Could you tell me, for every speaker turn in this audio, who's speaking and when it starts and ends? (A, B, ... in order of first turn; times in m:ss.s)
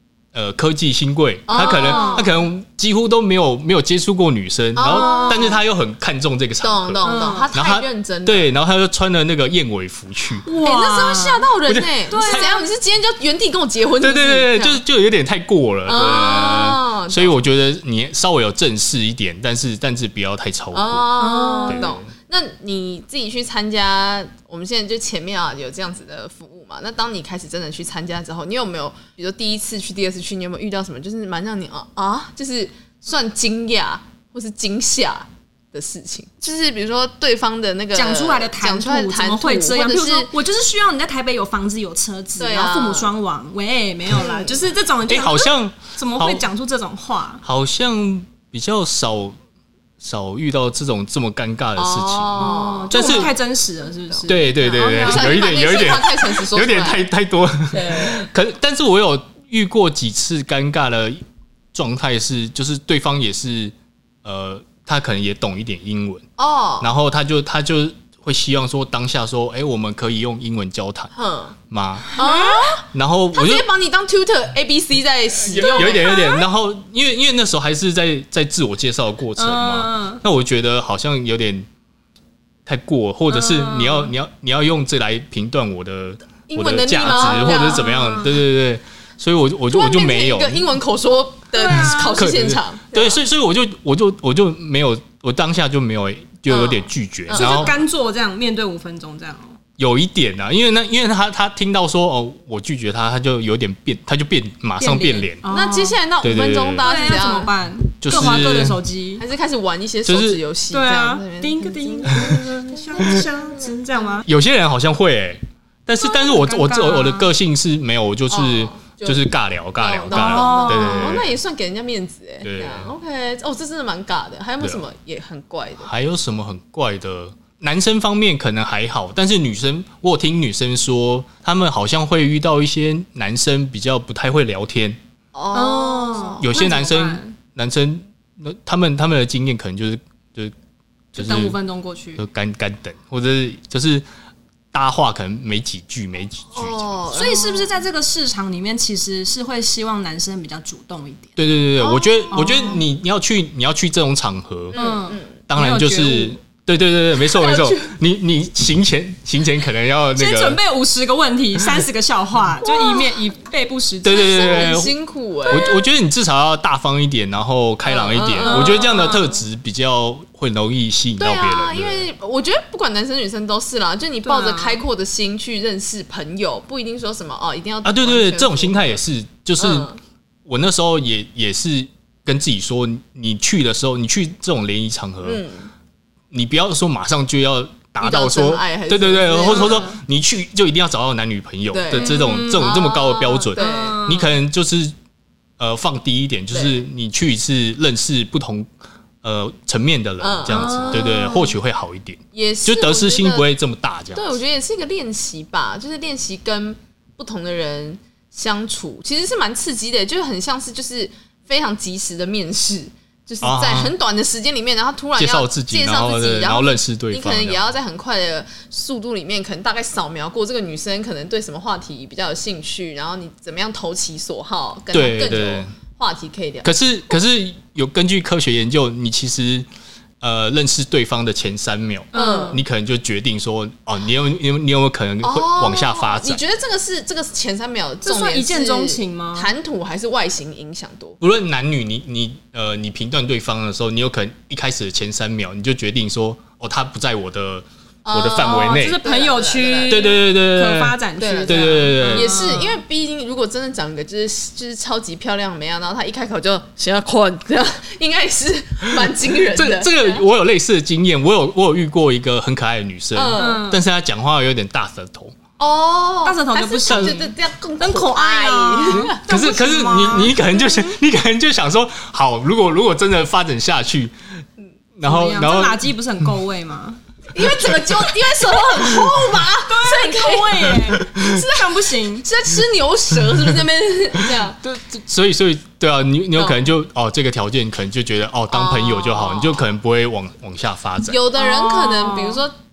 0:00.3-0:10.5 A
0:01.5-0:02.3 B
0:01.6-0:02.3 C
0:04.8-0:05.6 B
0:04.8-0:05.6 C
0:06.6-0:08.5 B
0:07.0-0:07.5 C
0:10.4-0:11.5 C
0:10.6-0:14.8 B
0:11.6-0:12.5 A
0:12.1-0:12.6 C
0:14.0-0:21.1 A
0:15.9-0:17.4 B
0:20.7-0:40.3 B
0:21.2-0:21.9 C
0:21.7-0:22.1 A
0:37.9-0:47.4 C
0:42.4-0:43.1 B
0:44.1-0:44.7 B
0:45.1-0:46.4 A
0:47.4-0:49.4 A
0:50.0-0:53.3 A
0:51.8-0:53.3 B
0:52.4-0:55.3 C
0:54.1-0:57.0 B
0:54.3-1:01.2 A
0:57.7-0:58.3 B
1:01.7-1:06.2 A
1:06.4-1:06.9 B
1:06.8-1:11.1 A
1:11.1-1:11.6 B
1:11.7-1:12.1 A
1:12.1-1:16.4 B
1:12.1-1:12.8 C
1:12.9-1:13.6 A
1:15.5-1:21.7 A
1:15.6-1:16.2 C
1:19.4-1:20.2 C
1:22.6-1:30.8 A
1:23.3-1:24.1 C
1:26.5-1:28.1 B
1:27.0-1:28.4 C
1:29.7-1:33.2 B
1:31.5-1:32.3 C
1:32.1-1:37.7 A
1:36.5-1:37.8 B
1:37.3-1:39.6 C
1:39.8-1:45.4 A
1:44.8-1:46.0 C
1:45.4-1:47.5 B
1:46.2-1:46.9 A
1:46.8-1:49.2 C
1:48.0-1:48.8 A
1:48.1-1:48.4 B
1:49.2-1:54.2 B
1:50.0-1:50.4 A
1:50.7-1:54.3 C
1:54.2-2:01.4 A
1:56.0-1:57.3 C
1:58.3-1:59.2 B
1:59.8-2:05.9 B
2:00.1-2:01.2 C
2:02.4-2:02.9 A
2:05.8-2:15.0 A
2:15.3-2:16.5 B
2:15.5-2:17.3 C
2:16.4-2:20.5 A
2:21.1-2:21.6 A
2:21.2-2:22.2 C
2:22.2-2:24.0 A
2:24.7-2:27.2 A
2:26.5-2:27.7 B
2:27.1-2:31.5 C
2:31.4-2:34.8 A
2:31.8-2:32.8 B
2:32.3-2:32.8 C
2:34.7-2:35.4 B
2:34.7-2:36.4 C
2:35.5-2:40.6 A
2:37.3-2:37.9 B
2:40.1-2:44.7 C
2:42.6-2:43.0 B
2:44.0-2:44.9 A
2:44.1-2:45.7 B
2:45.5-2:45.8 C
2:45.5-2:52.1 A
2:47.8-2:48.9 B
2:48.4-2:49.4 C
2:51.2-2:59.0 B
2:54.2-2:54.8 C
2:57.8-2:59.9 A
2:59.6-3:00.0 B
3:00.4-3:05.4 A
3:05.2-3:05.7 B
3:06.3-3:14.9 A
3:08.0-3:10.0 B
3:09.5-3:09.8 C
3:11.7-3:14.0 B
3:11.9-3:14.3 C
3:15.6-3:18.7 A
3:16.5-3:16.8 B
3:19.2-3:24.4 A
3:20.2-3:21.3 B
3:20.5-3:21.5 C
3:22.3-3:23.5 B
3:24.1-3:46.8 B
3:33.4-3:33.9 A
3:35.2-3:37.7 A
3:44.9-3:45.7 A
3:46.6-3:49.6 A
3:50.2-3:56.4 A
3:52.1-3:52.6 C
3:52.1-3:52.6 B
3:55.2-4:01.2 B
3:58.0-3:59.5 C
4:01.2-4:09.0 A
4:08.0-4:10.0 B
4:08.4-4:12.8 C
4:09.9-4:12.3 A
4:11.2-4:20.2 B
4:19.0-4:25.3 A
4:23.1-4:23.6 B
4:23.4-4:23.8 C
4:25.6-4:29.2 B
4:26.2-4:31.0 C
4:26.9-4:27.2 A
4:28.9-4:34.1 A
4:35.0-4:35.8 A
4:35.0-4:37.0 C
4:37.3-4:44.6 B
4:37.6-4:38.0 A
4:39.2-4:42.2 C
4:44.2-4:51.2 A
4:46.3-4:46.6 B
4:48.5-4:49.7 B
4:51.1-4:52.5 B
4:51.4-4:52.4 C